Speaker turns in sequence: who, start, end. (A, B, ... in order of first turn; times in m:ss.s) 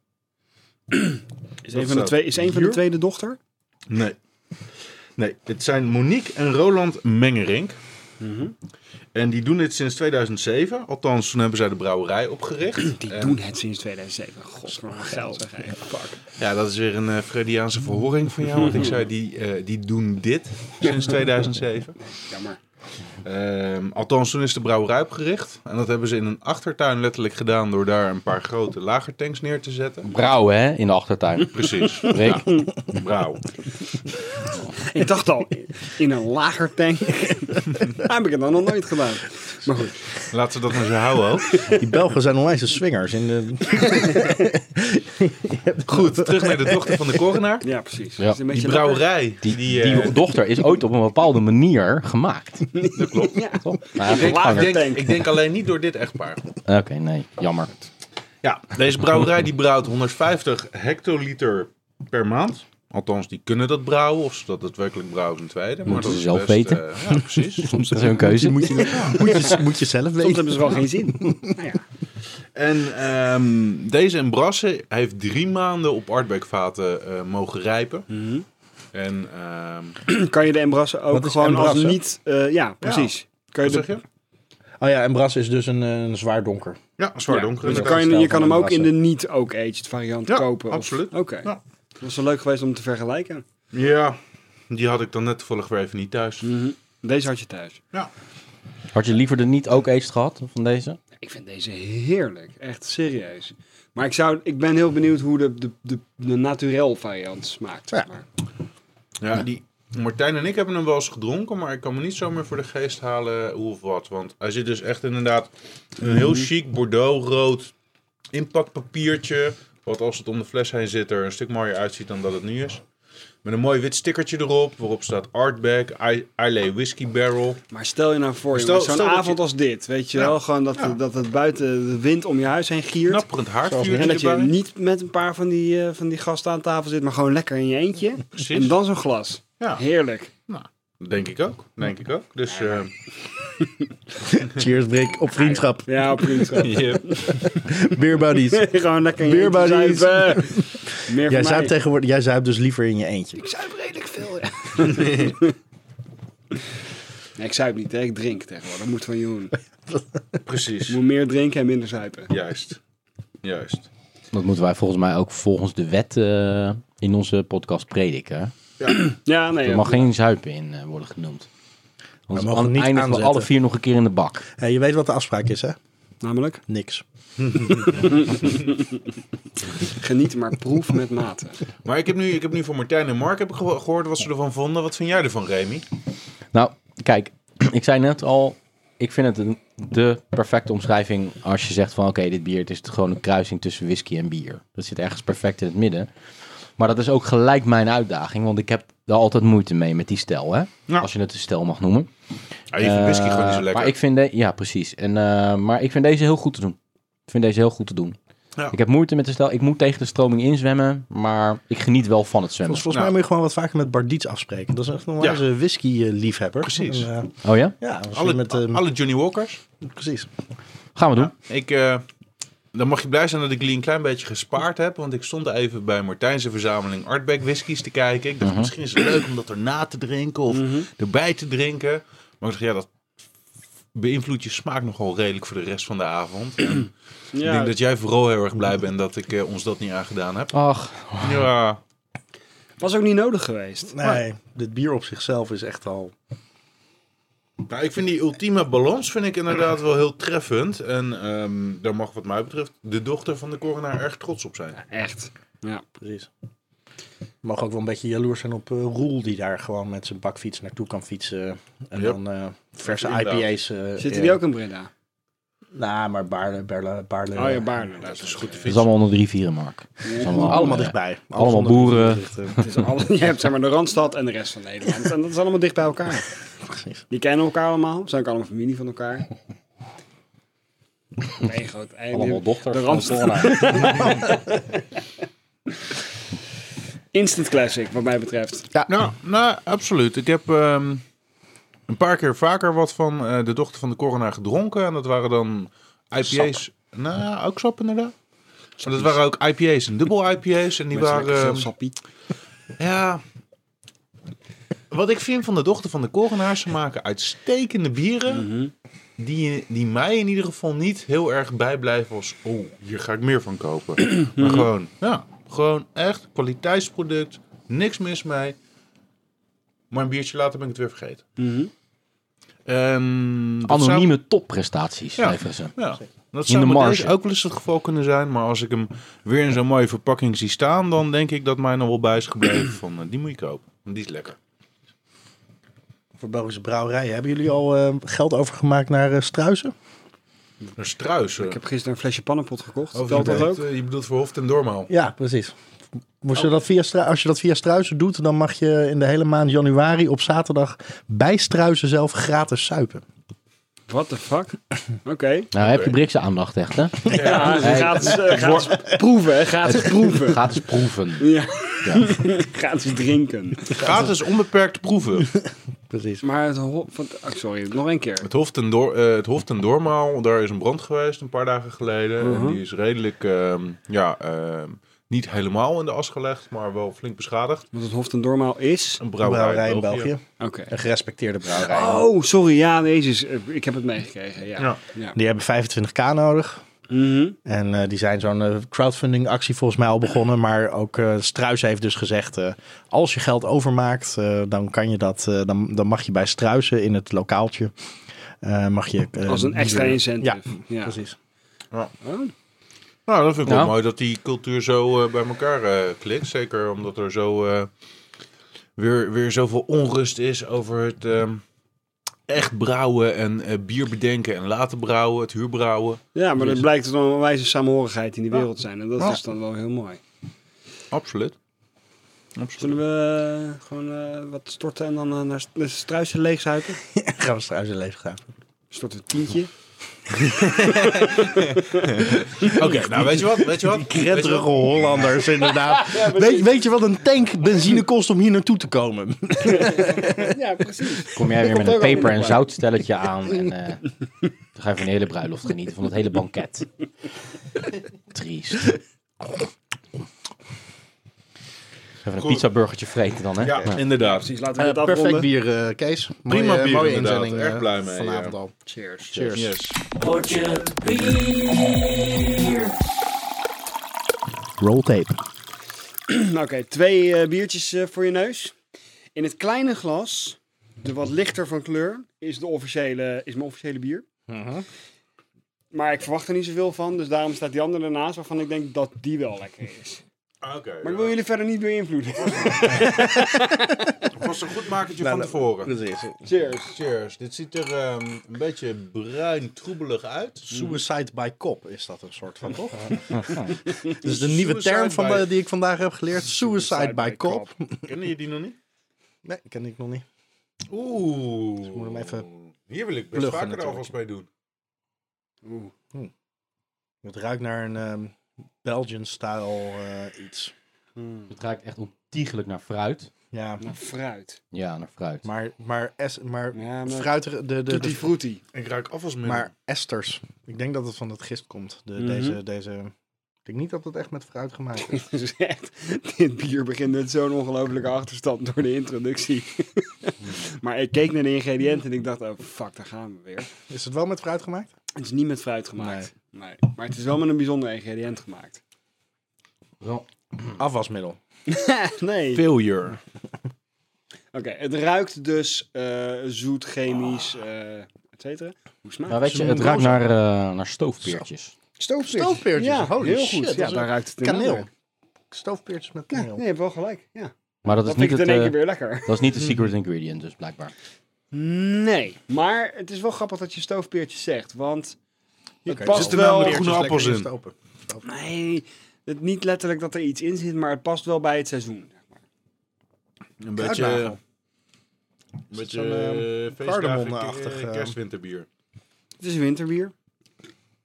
0:00.9-0:03.4 A
0:01.7-0:02.8 B
0:03.9-0:04.2 B
0:05.2-0:07.8 B
0:08.2-0:08.6 A
0:09.1-0:13.4 B
0:12.9-0:16.2 A
0:16.4-0:22.0 B
0:18.6-0:18.9 A
0:22.2-0:22.6 A
0:23.2-0:30.1 B
0:30.0-0:32.6 C
0:31.4-0:33.5 B
0:34.8-0:40.2 A
0:40.3-0:41.6 B
0:41.6-0:41.8 A
0:41.7-0:47.2 D
0:45.9-0:47.6 B
0:47.6-0:49.1 A
0:48.5-0:50.2 B
0:49.4-0:52.7 C
0:52.7-0:55.3 A
0:52.9-0:53.4 B
0:53.6-0:54.8 C
0:54.0-0:56.4 B
0:56.6-0:57.8 C
0:58.4-1:09.3 B
1:05.8-1:06.8 C
1:07.6-1:08.9 C
1:08.0-1:11.5 D
1:09.2-1:09.6 A
1:10.2-1:11.8 A
1:12.5-1:18.1 B
1:18.1-1:18.4 A
1:18.9-1:20.0 B
1:20.1-1:24.0 A
1:21.1-1:22.0 D
1:22.8-1:24.0 B
1:24.8-1:26.8 D
1:27.0-1:28.0 B
1:27.3-1:33.4 A
1:27.6-1:28.9 D
1:30.3-1:31.6 B
1:33.7-1:34.2 B
1:34.7-1:36.4 B
1:36.4-1:37.8 A
1:38.9-1:41.0 C
1:41.2-1:48.2 A
1:49.2-1:57.7 B
1:56.0-1:56.5 A
1:58.3-2:02.8 B
2:03.4-2:07.6 B
2:07.7-2:13.3 A
2:08.5-2:09.4 B
2:10.1-2:11.0 B
2:13.0-2:14.5 B
2:13.6-2:14.2 D
2:13.9-2:20.3 A
2:18.3-2:18.7 B
2:20.5-2:22.9 B
2:22.5-2:22.9 A
2:23.4-2:23.7 A
2:24.2-2:26.3 D
2:25.4-2:27.5 A
2:26.6-2:27.5 B
2:27.4-2:33.4 D
2:28.4-2:31.7 A
2:33.4-2:35.5 A
2:34.8-2:35.4 B
2:37.4-2:39.6 A
2:40.4-2:41.0 B
2:40.9-2:42.3 A
2:42.3-2:42.8 B
2:43.4-2:43.9 B
2:44.3-2:48.5 C
2:48.8-2:49.1 B
2:48.9-2:50.1 A
2:49.6-2:51.5 C
2:52.3-2:54.4 C
2:52.3-2:53.5 D
2:54.6-2:55.8 D
2:56.2-2:56.6 A
2:56.7-2:57.0 D
2:57.4-2:58.5 B
2:58.0-2:58.6 A
2:59.8-3:01.6 A
3:01.8-3:05.8 B
3:06.5-3:16.1 C
3:16.8-3:22.1 C
3:22.7-3:24.0 B
3:22.8-3:26.8 C
3:27.3-3:28.2 C
3:28.7-3:32.9 C
3:32.6-3:38.8 D
3:36.6-3:37.1 B
3:37.4-3:37.7 C
3:38.1-3:39.6 B
3:39.8-3:40.3 D
3:41.0-3:41.3 C
3:41.2-3:42.0 B
3:42.7-3:52.9 B
3:48.4-3:48.7 C
3:50.5-3:50.9 A
3:53.9-4:00.6 B
3:57.3-3:57.8 A
4:00.5-4:01.5 C
4:01.2-4:01.8 B
4:02.8-4:04.2 A
4:03.9-4:06.1 D
4:07.7-4:14.8 B
4:14.8-4:15.8 A
4:16.0-4:16.3 D
4:17.4-4:24.4 D
4:22.8-4:23.5 B
4:24.0-4:24.9 A
4:25.7-4:27.8 D
4:27.3-4:28.6 A
4:28.0-4:28.9 B
4:28.6-4:32.2 C
4:30.0-4:30.7 A
4:30.3-4:32.6 D
4:32.6-4:36.3 A
4:36.7-4:37.0 D
4:37.1-4:39.3 A
4:41.4-4:44.6 A
4:42.1-4:44.0 C
4:47.1-4:48.7 A
4:48.9-4:51.0 B
4:51.9-4:58.1 B
4:58.8-5:01.7 B
4:58.8-4:59.1 A
5:00.9-5:02.0 A
5:02.8-5:03.2 B
5:04.9-5:08.5 B
5:08.3-5:08.7 A
5:09.2-5:18.6 B
5:14.4-5:14.7 A
5:19.9-5:21.2 B
5:21.4-5:21.7 A
5:22.6-5:24.1 B
5:23.6-5:25.8 C
5:25.2-5:34.4 B
5:26.5-5:27.1 C
5:36.2-5:39.7 D
5:40.8-5:41.6 B
5:41.4-5:43.6 A
5:42.9-5:44.9 B
5:44.9-5:45.6 D
5:46.2-5:53.0 D
5:53.9-5:55.5 A
5:55.5-5:58.4 C
5:55.6-5:55.9 B
5:57.0-5:58.7 B
5:57.0-6:00.6 A
5:59.7-6:01.3 C
6:01.2-6:04.0 A
6:01.8-6:02.1 C
6:03.8-6:05.3 B
6:05.9-6:06.2 D
6:06.2-6:08.3 A
6:08.2-6:17.7 B
6:12.2-6:12.6 A
6:17.7-6:19.0 A
6:19.0-6:20.1 B
6:19.2-6:22.1 D
6:20.4-6:20.7 A
6:21.5-6:25.2 A
6:25.1-6:26.6 D
6:26.9-6:27.4 A
6:27.4-6:37.7 D
6:38.4-6:41.2 D
6:39.3-6:40.9 A
6:42.0-6:42.3 A
6:43.1-6:47.7 B
6:43.4-6:43.7 C
6:48.8-6:51.4 B
6:52.3-6:56.0 B
6:56.1-7:00.0 A
7:00.9-7:01.4 B
7:02.4-7:02.7 B
7:02.6-7:06.8 A
7:06.9-7:08.2 D
7:08.7-7:09.5 A
7:10.6-7:11.8 A
7:11.2-7:15.0 B
7:12.4-7:20.3 D
7:15.4-7:16.6 A
7:19.4-7:22.4 A
7:21.1-7:23.8 C
7:24.5-7:26.7 C
7:28.1-7:28.7 C
7:32.0-7:33.8 C
7:32.2-7:32.5 B
7:33.4-7:34.3 B
7:34.0-7:35.3 A
7:34.6-7:38.5 D
7:36.3-7:38.4 B
7:38.6-7:39.4 A
7:39.1-7:39.5 D
7:39.3-7:39.8 B
7:40.0-7:42.7 C
7:44.6-7:45.2 D
7:46.1-7:48.5 A
7:49.1-7:54.0 A
7:54.3-7:54.6 D
7:55.7-8:00.0 A
8:00.4-8:01.2 B
8:00.8-8:04.1 A
8:02.3-8:03.0 B
8:02.7-8:03.0 D
8:04.1-8:05.7 B
8:05.0-8:06.3 D
8:06.2-8:06.8 A
8:06.7-8:10.7 B
8:10.5-8:17.9 D
8:13.9-8:15.3 B
8:16.2-8:17.5 A
8:17.8-8:18.6 B
8:19.2-8:20.0 D
8:20.7-8:24.3 B
8:21.6-8:22.3 D
8:23.1-8:23.9 D
8:25.4-8:25.7 A
8:27.0-8:30.5 D
8:31.0-8:31.3 A
8:31.3-8:33.1 C
8:33.3-8:33.6 D
8:33.6-8:34.4 A
8:34.5-8:35.2 C
8:35.2-8:38.1 D
8:36.5-8:37.1 A
8:37.6-8:38.4 A
8:38.5-8:39.5 B
8:39.2-8:42.9 D
8:42.0-8:42.4 A
8:43.4-8:45.0 D
8:44.8-8:53.5 A
8:53.7-8:54.7 D
8:55.0-8:58.6 A
8:55.8-8:56.1 D
8:59.8-9:00.1 C
9:00.6-9:01.2 D
9:01.5-9:02.4 A
9:02.3-9:03.0 B
9:04.3-9:09.2 A
9:09.1-9:11.5 C
9:09.3-9:10.0 B
9:09.3-9:10.0 D
9:11.8-9:14.7 A
9:12.0-9:14.7 D
9:15.3-9:16.4 D
9:16.1-9:17.3 A
9:17.6-9:20.7 C
9:17.8-9:19.1 A
9:21.3-9:25.0 A
9:25.6-9:26.6 A
9:25.7-9:28.0 D
9:25.8-9:27.3 B
9:28.0-9:32.1 A
9:33.4-9:34.2 B
9:33.6-9:34.2 D
9:35.5-9:38.5 B
9:35.5-9:38.0 D
9:39.2-9:39.9 A